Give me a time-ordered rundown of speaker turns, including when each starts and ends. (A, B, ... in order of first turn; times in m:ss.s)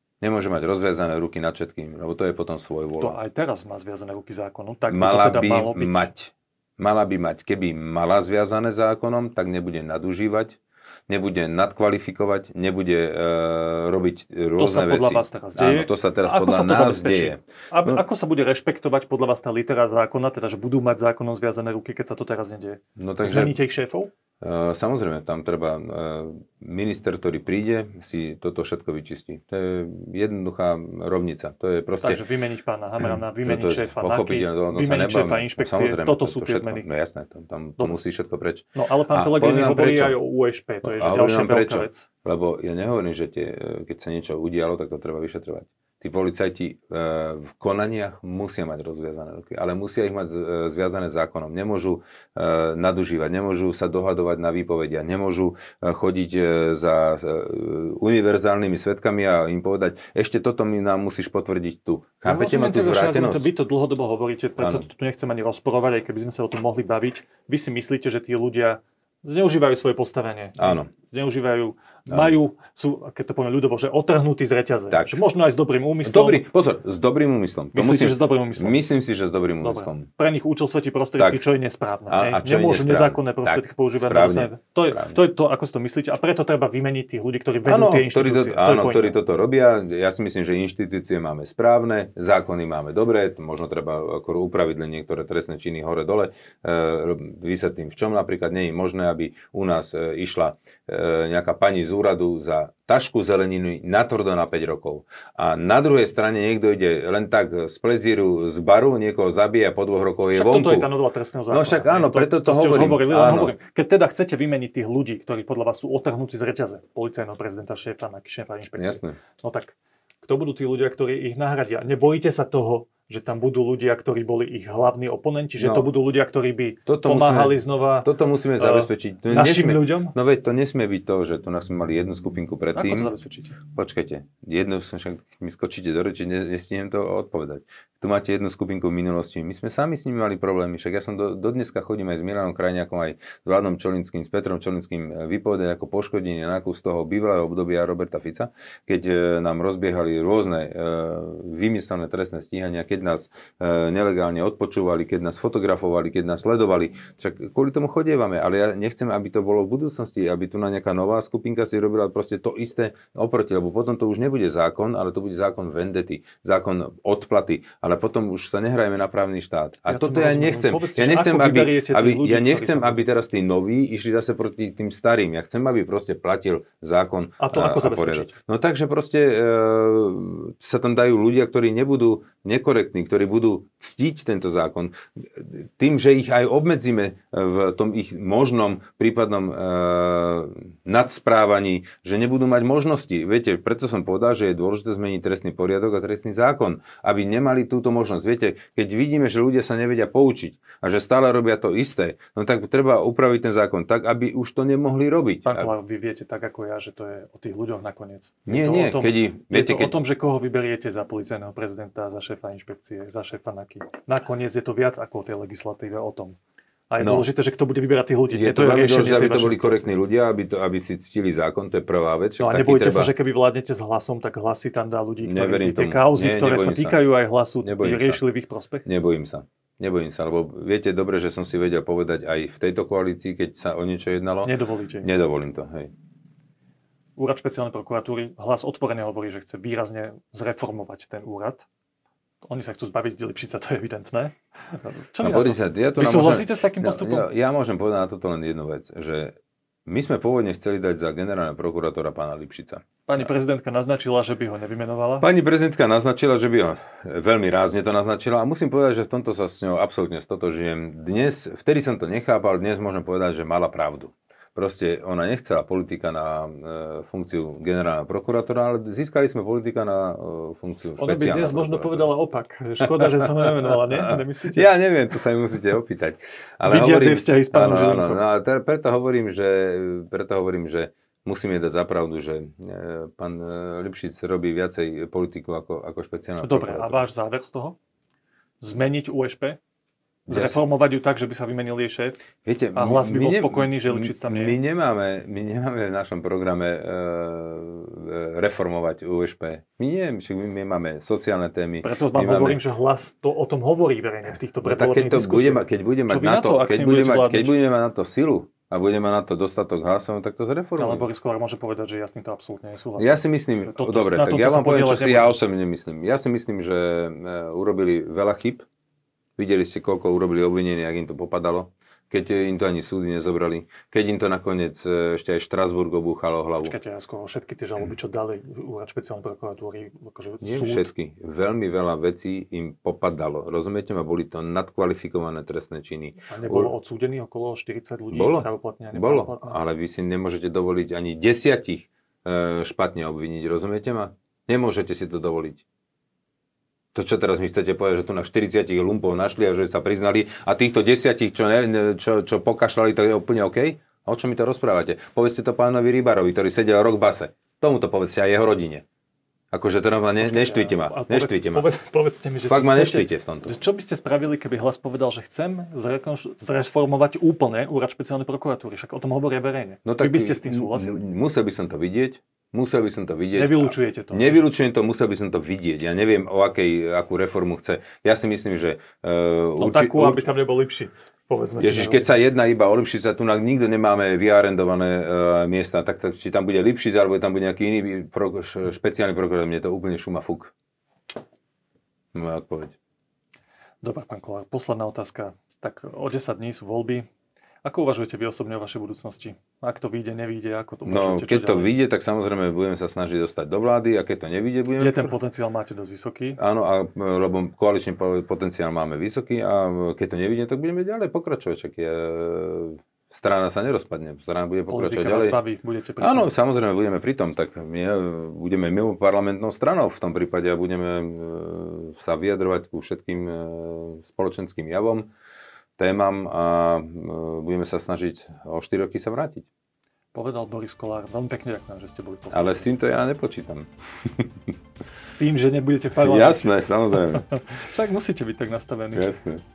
0:00.2-0:03.2 A
0:03.0-0:06.1 B
0:04.9-0:18.0 A
0:14.6-0:24.1 B
0:23.0-0:23.6 A
0:24.4-0:32.2 A
0:32.0-0:36.9 B
0:33.0-0:40.2 A
0:38.8-0:42.1 B
0:40.8-1:03.5 A
1:02.2-1:16.4 B
1:04.6-1:04.9 A
1:10.6-1:10.9 A
1:14.9-1:15.2 A
1:16.0-1:20.1 A
1:17.7-1:18.8 B
1:19.6-1:29.2 B
1:21.2-1:21.4 A
1:22.1-1:25.2 A
1:27.7-1:50.9 A
1:50.3-2:10.2 B
1:51.5-1:53.6 A
1:58.8-1:59.2 A
2:05.6-2:05.9 A
2:06.9-2:13.1 A
2:12.8-2:13.6 B
2:13.7-3:25.7 A
2:49.9-2:53.0 B
2:57.4-2:58.3 B
3:25.5-3:36.4 B
3:28.5-3:30.0 A
3:36.9-3:39.9 B
3:37.0-3:37.3 A
3:38.3-3:43.1 A
3:42.4-3:48.9 B
3:45.2-3:47.0 A
3:47.6-3:48.2 A
3:48.8-3:55.9 A
3:54.4-3:55.1 B
3:57.2-4:01.7 B
4:02.4-4:07.3 B
4:05.2-4:09.4 A
4:09.9-4:13.3 A
4:13.1-4:15.3 B
4:15.2-4:32.1 A
4:31.0-4:34.7 B
4:32.8-4:47.0 A
4:36.6-4:38.2 B
4:46.4-4:47.8 B
4:48.6-4:49.6 B
4:50.3-4:50.6 A
4:50.3-4:52.2 B
4:52.4-5:02.6 A
4:52.8-4:54.6 B
5:01.8-5:07.6 B
5:04.6-5:11.1 A
5:10.8-5:15.4 B
5:13.0-5:18.6 A
5:19.4-5:26.7 A
5:26.6-5:30.9 B
5:30.4-5:36.7 A
5:36.3-5:39.6 B
5:38.1-5:45.6 A
5:46.9-5:58.8 A
5:59.5-6:01.7 A
6:00.2-6:11.0 B
6:02.4-6:03.6 A
6:09.8-6:20.2 A
6:13.3-6:14.4 B
6:19.6-6:22.1 B
6:21.6-6:30.5 A
6:32.1-6:32.8 A
6:33.8-6:37.1 B
6:37.6-6:41.7 B
6:40.8-6:45.1 A
6:44.8-6:46.4 B
6:46.4-6:55.4 A
6:54.7-6:56.3 B
6:56.0-7:05.1 A
7:05.8-7:09.5 A
7:10.1-7:12.6 B
7:12.3-7:14.4 A
7:15.0-7:19.1 B
7:16.0-7:17.3 A
7:18.9-7:19.4 A